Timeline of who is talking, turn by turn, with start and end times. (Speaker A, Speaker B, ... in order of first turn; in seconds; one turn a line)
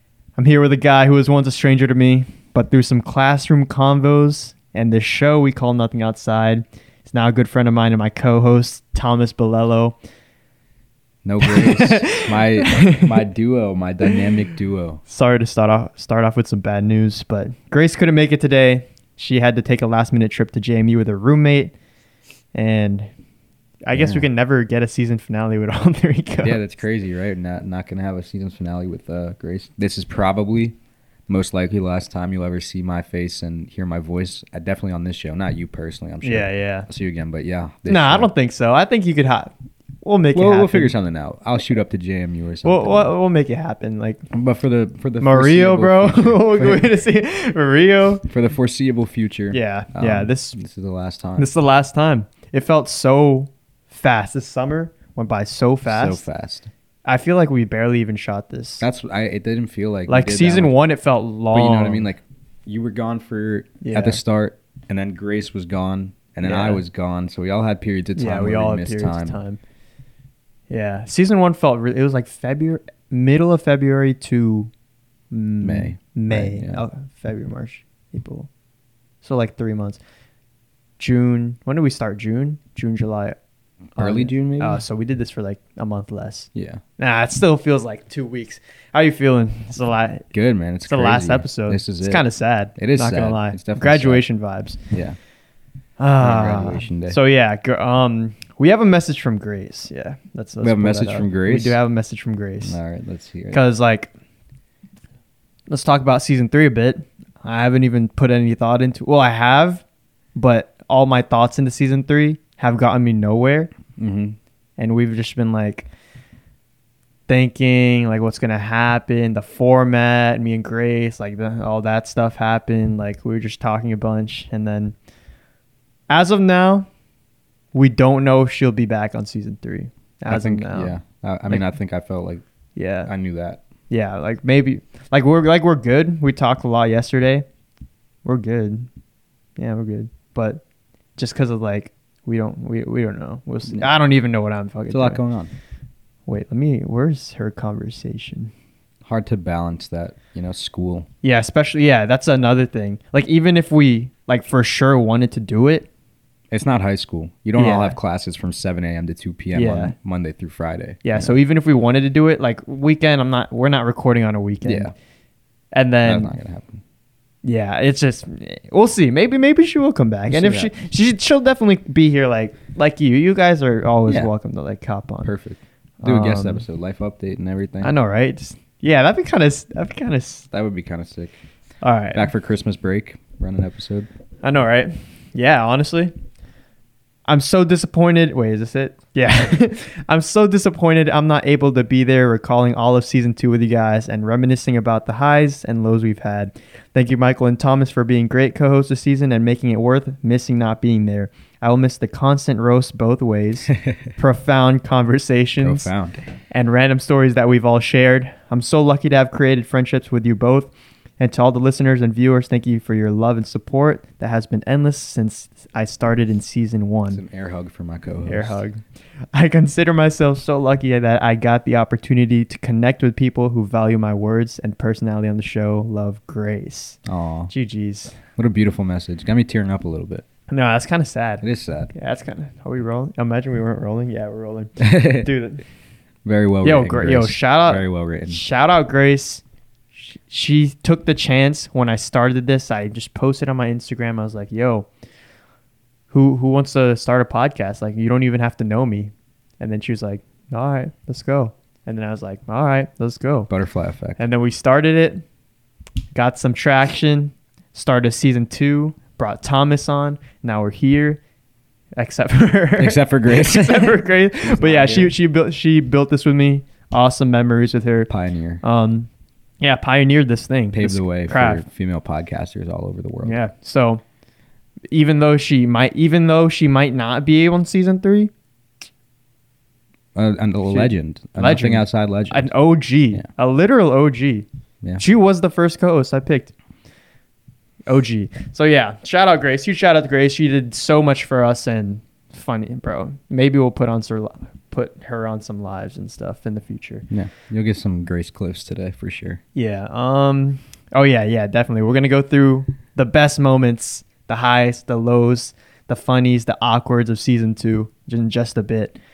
Speaker A: 0.3-9.9
Speaker B: 11.2-15.0
Speaker A: 11.4-13.1
Speaker A: 15.1-21.7
Speaker A: 22.5-23.1
Speaker A: 23.9-26.6
Speaker B: 23.9-24.2
Speaker B: 26.4-30.8
Speaker B: 31.3-38.3
Speaker A: 36.2-36.9
Speaker A: 37.9-40.9
Speaker B: 40.3-43.1
Speaker A: 42.6-44.2
Speaker B: 44.3-46.9
Speaker A: 45.2-48.2
Speaker B: 48.3-51.5
Speaker A: 49.5-50.6
Speaker A: 51.4-56.2
Speaker B: 55.9-56.7
Speaker A: 57.0-58.8
Speaker B: 58.8-60.8
Speaker A: 60.1-62.1
Speaker B: 61.5-69.4
Speaker A: 63.8-64.2
Speaker A: 66.4-66.8
Speaker A: 68.2-69.6
Speaker A: 70.7-74.7
Speaker A: 75.3-78.5
Speaker B: 75.6-76.8
Speaker A: 79.2-80.0
Speaker A: 81.0-83.4
Speaker A: 83.9-90.3
Speaker B: 84.0-84.8
Speaker B: 86.5-86.8
Speaker B: 90.3-94.2
Speaker A: 90.8-94.8
Speaker B: 94.9-95.2
Speaker A: 96.0-102.8
Speaker B: 96.2-97.2
Speaker B: 100.6-101.8
Speaker B: 102.6-103.6
Speaker A: 103.5-104.1
Speaker A: 105.7-109.8
Speaker A: 110.3-113.7
Speaker B: 114.0-114.4
Speaker A: 114.8-115.9
Speaker A: 117.3-124.9
Speaker A: 126.1-126.9
Speaker A: 127.7-131.0
Speaker B: 130.3-132.4
Speaker A: 132.8-133.1
Speaker B: 133.1-133.6
Speaker A: 133.9-137.4
Speaker A: 138.2-138.9
Speaker A: 139.6-140.6
Speaker A: 141.2-145.2
Speaker B: 144.9-145.5
Speaker A: 146.3-148.5
Speaker B: 149.0-151.1
Speaker A: 151.2-155.9
Speaker B: 156.5-161.4
Speaker A: 157.5-158.0
Speaker A: 159.5-159.9
Speaker A: 161.0-164.9
Speaker B: 164.6-164.9
Speaker A: 165.7-166.3
Speaker B: 166.0-166.8
Speaker A: 167.4-175.3
Speaker B: 170.3-170.7
Speaker B: 174.1-174.3
Speaker B: 175.2-177.9
Speaker A: 176.0-176.6
Speaker A: 177.8-180.5
Speaker B: 180.5-181.3
Speaker A: 181.8-182.3
Speaker B: 182.1-184.1
Speaker A: 184.4-186.1
Speaker A: 187.3-205.9
Speaker B: 205.6-206.2
Speaker A: 206.5-217.2
Speaker B: 217.1-218.6
Speaker A: 218.2-218.8
Speaker A: 219.3-228.2
Speaker B: 227.1-227.5
Speaker B: 228.3-230.2
Speaker A: 230.5-235.6
Speaker B: 231.4-231.9
Speaker B: 234.8-235.3
Speaker B: 236.2-238.4
Speaker A: 236.6-239.4
Speaker A: 239.9-244.9
Speaker A: 246.1-253.5
Speaker B: 253.5-254.2
Speaker A: 254.2-255.2
Speaker A: 256.1-261.2
Speaker A: 262.0-268.1
Speaker B: 262.8-265.1
Speaker B: 268.1-268.6
Speaker A: 268.6-269.1
Speaker A: 269.6-271.6
Speaker B: 270.7-273.4
Speaker A: 273.2-274.0
Speaker A: 274.9-278.3
Speaker B: 280.1-282.5
Speaker A: 280.6-284.4
Speaker A: 285.0-286.5
Speaker A: 287.9-297.1
Speaker B: 297.1-299.4
Speaker A: 299.5-309.0